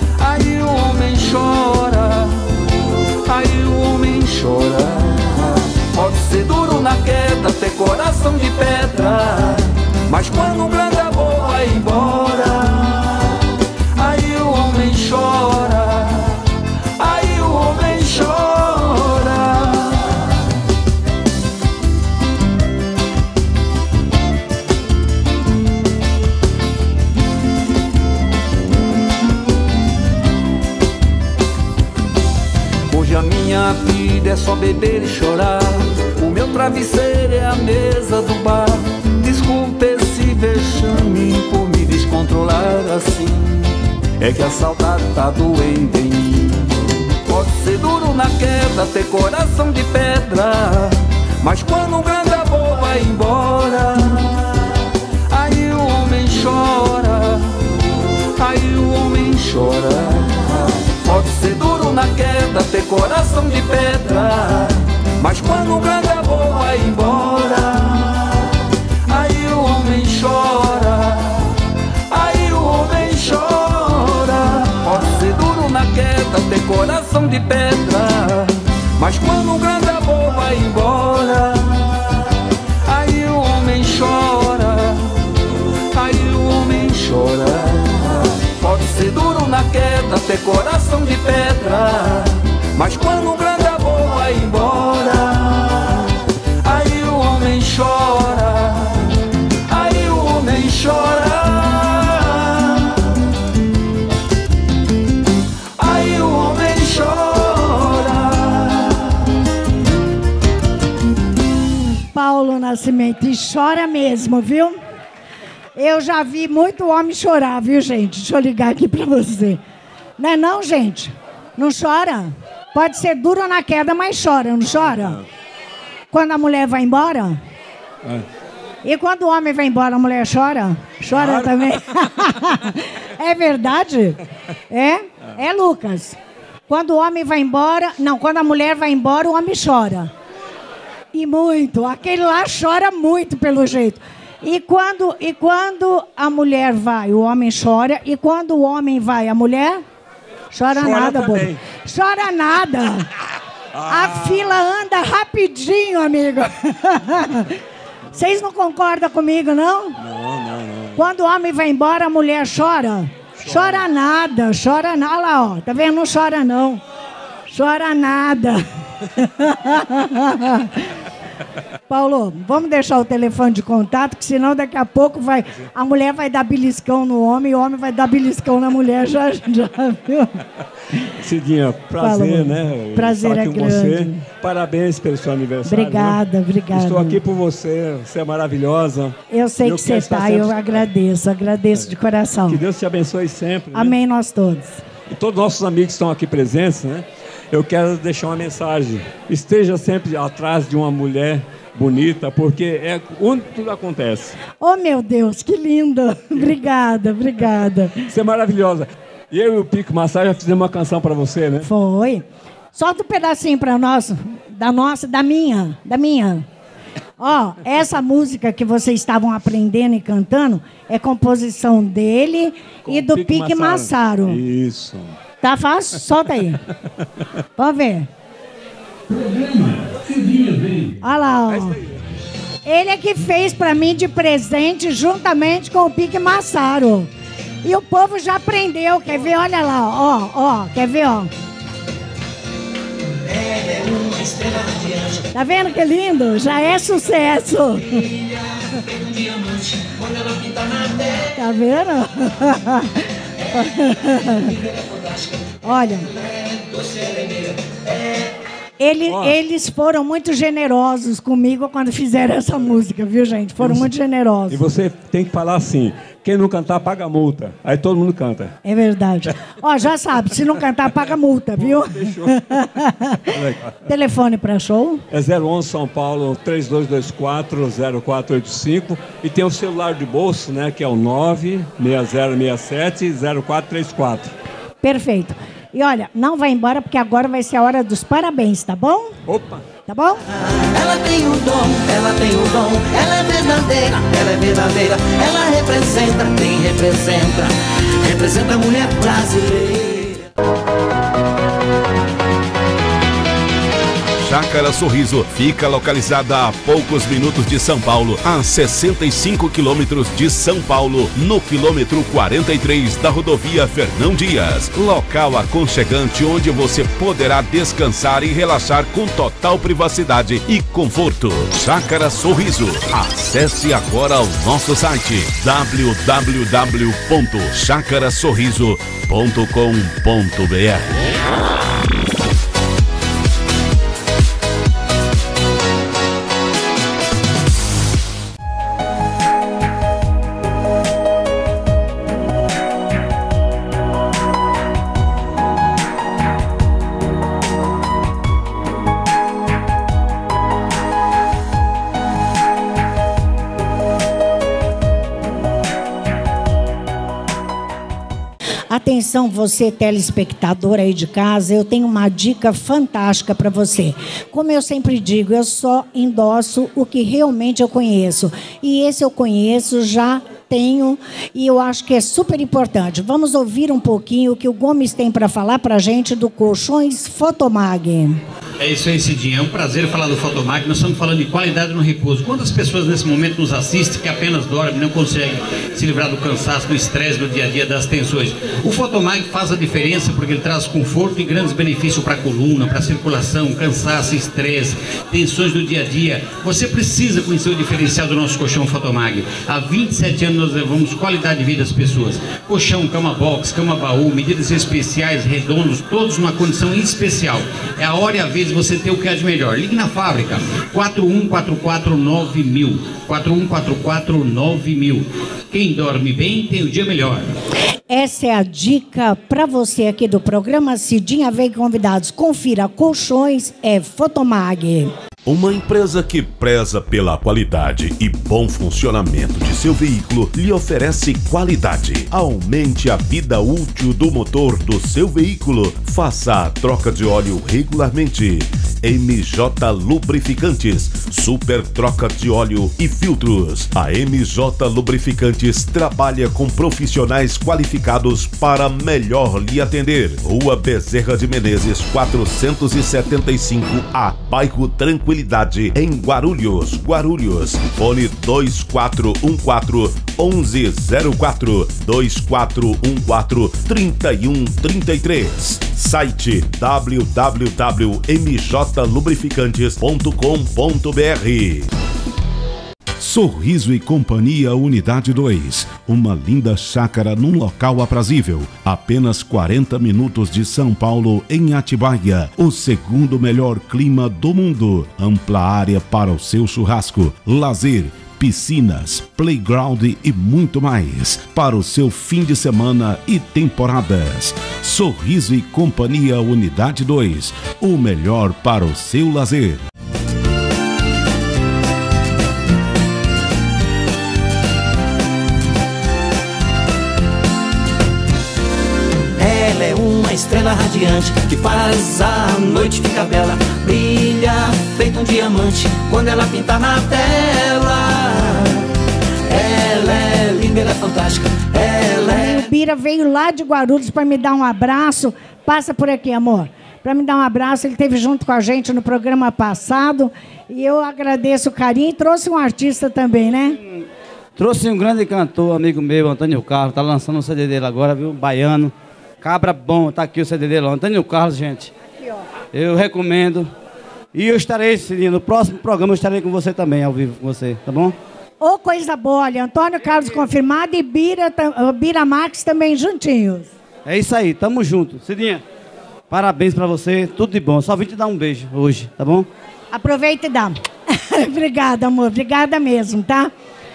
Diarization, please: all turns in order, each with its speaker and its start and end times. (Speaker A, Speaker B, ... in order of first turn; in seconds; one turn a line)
Speaker A: 0.2-2.5
Speaker A: 3.3-13.4
Speaker A: 14.0-16.4
Speaker A: 17.0-20.1
Speaker A: 32.9-46.7
Speaker A: 47.3-54.6
Speaker A: 55.3-57.6
Speaker A: 58.4-68.5
Speaker A: 69.1-71.5
Speaker A: 72.1-82.0
Speaker A: 82.9-85.2
Speaker A: 85.9-96.1
Speaker A: 96.6-99.1
Speaker A: 99.7-103.0
Speaker A: 105.8-109.2
Speaker B: 112.1-114.8
Speaker B: 115.8-119.6
Speaker B: 120.2-125.2
Speaker C: 124.7-125.1
Speaker B: 126.1-127.4
Speaker B: 128.8-134.2
Speaker C: 131.1-131.8
Speaker B: 134.7-136.2
Speaker B: 136.7-140.1
Speaker B: 141.1-149.8
Speaker B: 150.5-153.1
Speaker C: 150.7-151.6
Speaker C: 153.7-154.6
Speaker B: 153.9-157.5
Speaker B: 158.2-160.0
Speaker C: 160.0-161.1
Speaker B: 161.0-166.8
Speaker C: 163.4-163.9
Speaker B: 167.5-168.6
Speaker B: 169.2-170.7
Speaker B: 171.9-180.3
Speaker C: 181.2-190.9
Speaker B: 182.0-184.2
Speaker B: 185.7-187.2
Speaker B: 189.3-192.6
Speaker C: 192.5-194.0
Speaker B: 193.7-194.8
Speaker C: 195.1-204.4
Speaker B: 204.6-208.1
Speaker C: 208.1-211.7
Speaker B: 211.6-216.4
Speaker B: 217.2-224.4
Speaker C: 222.8-225.1
Speaker B: 225.4-226.6
Speaker B: 227.6-228.1
Speaker C: 229.1-230.9
Speaker B: 231.0-231.8
Speaker C: 231.5-231.8
Speaker B: 232.7-237.1
Speaker B: 237.6-241.3
Speaker D: 243.3-245.2
Speaker B: 245.3-248.0
Speaker D: 248.1-251.2
Speaker B: 251.3-252.9
Speaker B: 253.5-254.5
Speaker D: 254.7-255.1
Speaker B: 255.6-256.1
Speaker D: 256.5-257.4
Speaker B: 258.8-264.6
Speaker C: 259.1-259.4
Speaker C: 263.6-263.9
Speaker C: 264.5-268.6
Speaker B: 268.6-273.2
Speaker C: 271.6-272.8
Speaker C: 273.3-273.8
Speaker B: 273.9-275.0
Speaker C: 275.1-284.3
Speaker B: 284.8-289.1
Speaker C: 289.3-289.6
Speaker B: 289.9-290.2
Speaker D: 290.6-300.2
Speaker E: 304.1-331.2
Speaker B: 358.7-378.2
Speaker F: 378.6-417.3
Speaker B: 417.9-424.9
Speaker E: 425.2-471.7
Speaker E: 473.0-499.6
Speaker D: 509.2-518.6
Speaker D: 519.3-522.3
Speaker B: 522.1-533.6
Speaker G: 534.4-541.7
Speaker G: 542.5-543.5
Speaker G: 544.1-548.0
Speaker B: 548.4-553.5
Speaker G: 553.9-555.4
Speaker G: 556.1-559.3
Speaker B: 559.7-563.3